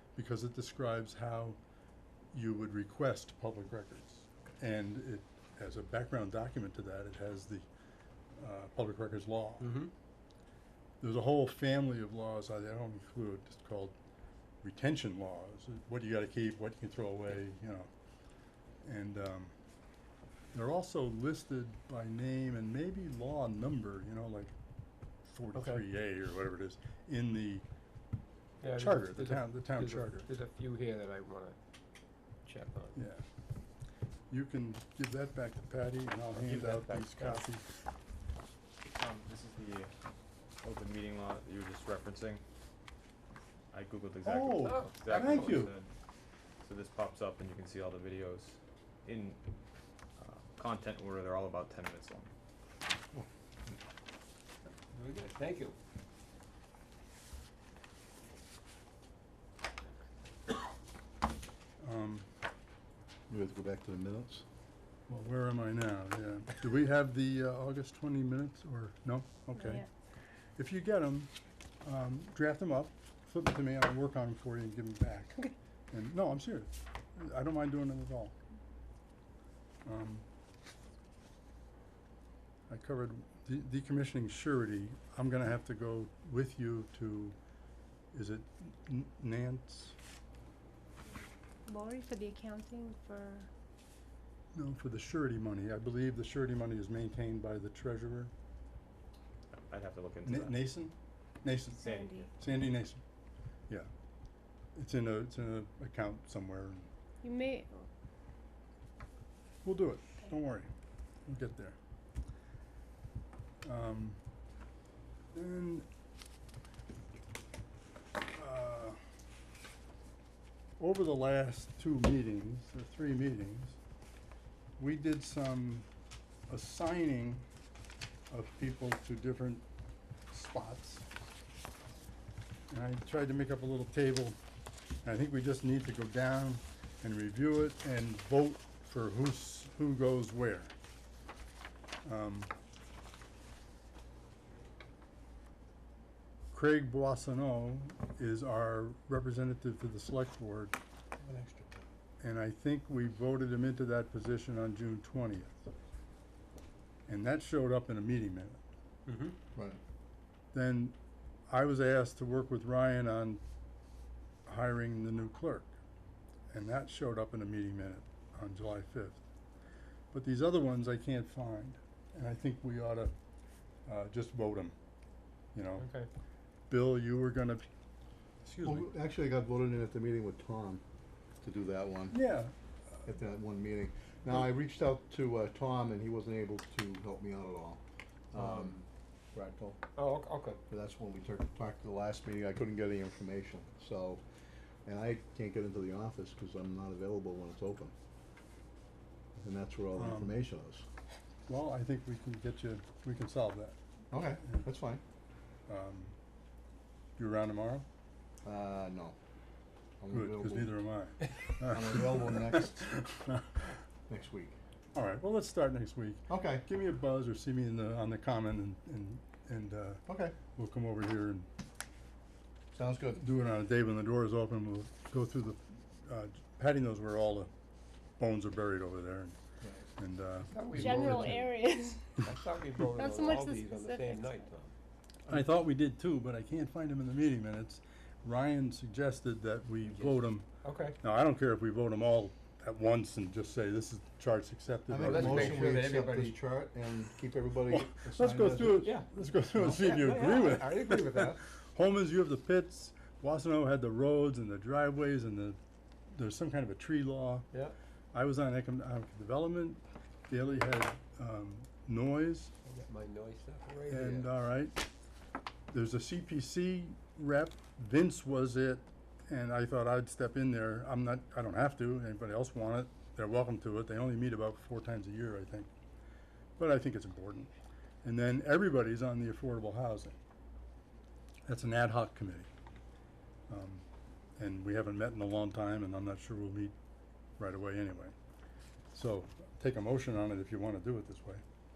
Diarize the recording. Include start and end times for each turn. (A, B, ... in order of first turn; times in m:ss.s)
0:00.2-0:01.6 A
0:02.3-0:07.6 A
0:08.4-0:09.8 A
0:09.6-0:09.9 B
0:11.0-0:14.0 A
0:14.6-0:17.9 A
0:18.8-0:19.5 A
0:20.5-0:24.5 A
0:25.2-0:27.6 A
0:25.5-0:25.8 B
0:28.6-0:31.6 B
0:28.7-0:30.3 A
0:32.4-0:33.0 B
0:32.9-0:33.2 A
0:34.3-0:37.6 A
0:36.4-0:37.5 C
0:38.9-0:39.9 C
0:40.6-0:42.4 C
0:43.7-0:45.9 C
0:44.2-0:45.7 A
0:44.6-0:45.7 B
0:46.6-0:49.4 C
0:50.2-0:52.3 C
0:53.1-0:53.7 D
0:54.9-0:55.8 B
1:01.8-1:02.2 A
1:03.3-1:04.4 D
1:05.1-1:09.8 A
1:09.6-1:09.9 E
1:10.6-1:11.3 A
1:11.8-1:18.3 A
1:19.8-1:20.2 A
1:22.7-1:27.4 A
1:28.1-1:30.0 A
1:31.7-1:33.5 E
1:34.5-1:38.3 A
1:39.5-1:40.6 C
1:40.2-1:41.8 A
1:41.7-1:42.3 E
1:41.8-1:42.3 C
1:42.4-1:43.0 A
1:44.8-1:46.9 A
1:47.2-1:47.9 E
1:49.6-1:50.7 A
1:51.2-1:51.8 A
1:53.6-1:54.2 A
1:55.3-1:55.8 A
1:58.3-1:59.0 A
2:00.8-2:03.8 A
2:04.8-2:05.9 A
2:06.5-2:07.4 A
2:08.3-2:09.6 A
2:10.3-2:11.1 A
2:12.7-2:14.4 A
2:15.0-2:20.7 A
2:22.0-2:22.5 A
2:26.5-2:30.8 A
2:31.2-2:31.8 B
2:32.2-2:35.7 A
2:37.1-2:38.6 A
2:39.0-2:39.4 B
2:39.5-2:39.8 D
2:40.5-2:41.0 A
2:41.5-2:43.4 A
2:44.4-2:45.7 A
2:46.5-2:49.2 A
2:50.1-2:53.1 A
2:53.8-2:54.7 A
2:55.5-2:55.9 A
2:55.8-2:56.1 B
2:56.7-2:57.6 A
2:58.4-2:58.9 A
2:58.6-3:00.8 D
3:01.4-3:02.2 D
3:02.1-3:02.5 A
3:03.0-3:07.8 D
3:08.3-3:09.8 D
3:08.3-3:08.7 B
3:10.0-3:10.6 B
3:10.7-3:14.2 D
3:14.8-3:17.9 D
3:19.4-3:20.8 D
3:19.9-3:20.4 A
3:21.5-3:24.6 A
3:24.1-3:25.0 D
3:25.7-3:26.1 A
3:27.2-3:27.8 A
3:28.4-3:29.2 D
3:30.0-3:30.7 D
3:30.1-3:33.5 A
3:31.6-3:33.0 D
3:34.1-3:34.6 D
3:34.9-3:41.5 A
3:36.3-3:36.6 D
3:40.1-3:40.4 D
3:42.7-3:43.2 D
3:43.2-3:47.5 A
3:48.2-3:49.4 A
3:50.0-3:51.4 A
3:50.5-3:51.5 B
3:50.7-3:52.2 E
3:52.2-3:54.7 B
3:52.9-3:54.5 E
3:55.3-4:00.5 A
3:59.8-4:01.0 B
4:01.0-4:05.7 A
4:04.9-4:09.0 D
4:05.0-4:06.4 B
4:07.7-4:15.6 A
4:08.8-4:11.4 B
4:16.1-4:17.5 A
4:18.1-4:22.5 A
4:22.7-4:24.3 B
4:23.9-4:24.8 A
4:25.7-4:35.7 A
4:36.6-4:37.5 A
4:38.0-4:40.2 A
4:41.5-4:42.5 A
4:43.5-4:43.8 A
4:44.4-4:46.7 A
4:47.4-4:48.1 A
4:48.9-4:51.4 A